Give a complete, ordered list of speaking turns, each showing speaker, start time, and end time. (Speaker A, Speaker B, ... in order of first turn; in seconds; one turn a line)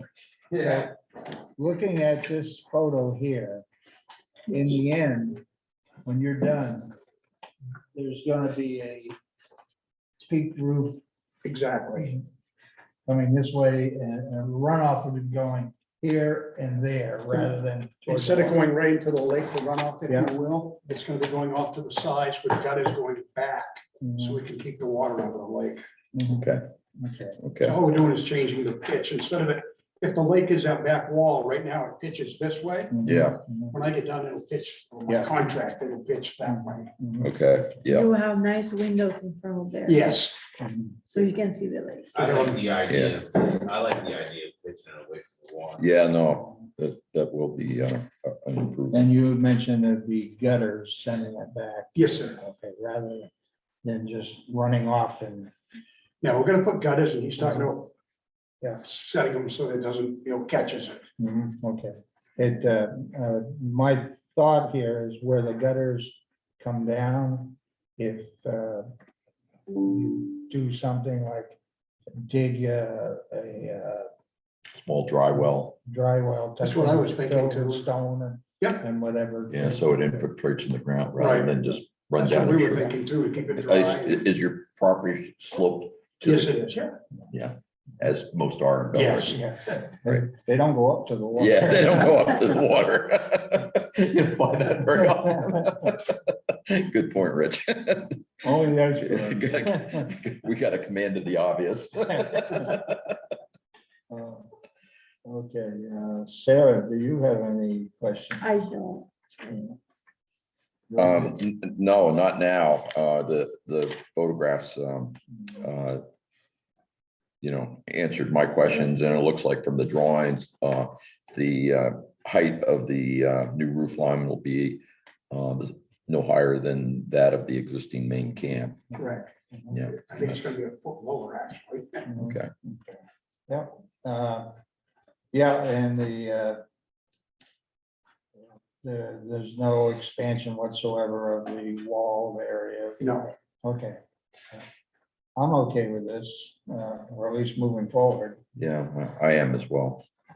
Speaker A: 1.6-3.6
Speaker A: 4.5-5.4
Speaker A: 6.0-6.9
Speaker A: 7.9-9.1
Speaker A: 10.2-11.0
Speaker B: 11.4-12.1
Speaker A: 13.1-18.6
Speaker B: 18.1-25.8
Speaker A: 24.0-24.4
Speaker A: 26.1-26.5
Speaker C: 26.2-26.6
Speaker A: 27.0-27.4
Speaker C: 27.4-27.8
Speaker B: 27.6-32.9
Speaker A: 32.9-33.8
Speaker C: 33.0-33.4
Speaker B: 33.7-36.9
Speaker A: 36.4-37.3
Speaker C: 37.2-38.1
Speaker D: 37.9-40.2
Speaker B: 39.9-40.4
Speaker A: 40.6-41.0
Speaker D: 41.0-42.2
Speaker E: 42.1-45.8
Speaker C: 42.9-43.2
Speaker C: 45.8-49.1
Speaker A: 48.9-53.3
Speaker B: 51.9-52.4
Speaker A: 53.8-55.5
Speaker B: 56.2-57.9
Speaker A: 57.4-57.7
Speaker B: 58.8-61.0
Speaker A: 61.2-68.9
Speaker A: 69.8-71.6
Speaker A: 72.1-74.1
Speaker C: 74.7-75.8
Speaker A: 75.5-80.2
Speaker B: 76.6-77.9
Speaker B: 78.6-78.8
Speaker C: 79.5-82.9
Speaker B: 81.2-84.2
Speaker C: 83.5-86.5
Speaker B: 86.2-87.0
Speaker C: 87.3-89.4
Speaker B: 88.9-89.4
Speaker A: 89.3-92.4
Speaker C: 91.4-98.2
Speaker A: 95.0-95.9
Speaker A: 98.4-100.0
Speaker C: 99.0-103.0
Speaker A: 104.1-104.5
Speaker A: 105.2-108.6
Speaker D: 108.4-109.5
Speaker A: 110.9-111.3
Speaker C: 111.0-116.0
Speaker C: 117.4-128.9
Speaker A: 128.9-129.8
Speaker B: 129.0-129.2
Speaker C: 129.7-130.3
Speaker B: 130.0-132.0
Speaker A: 132.1-134.5
Speaker C: 132.2-132.5
Speaker A: 135.3-136.6
Speaker A: 138.8-144.0
Speaker B: 143.0-143.3
Speaker A: 145.3-148.4
Speaker C: 148.6-150.0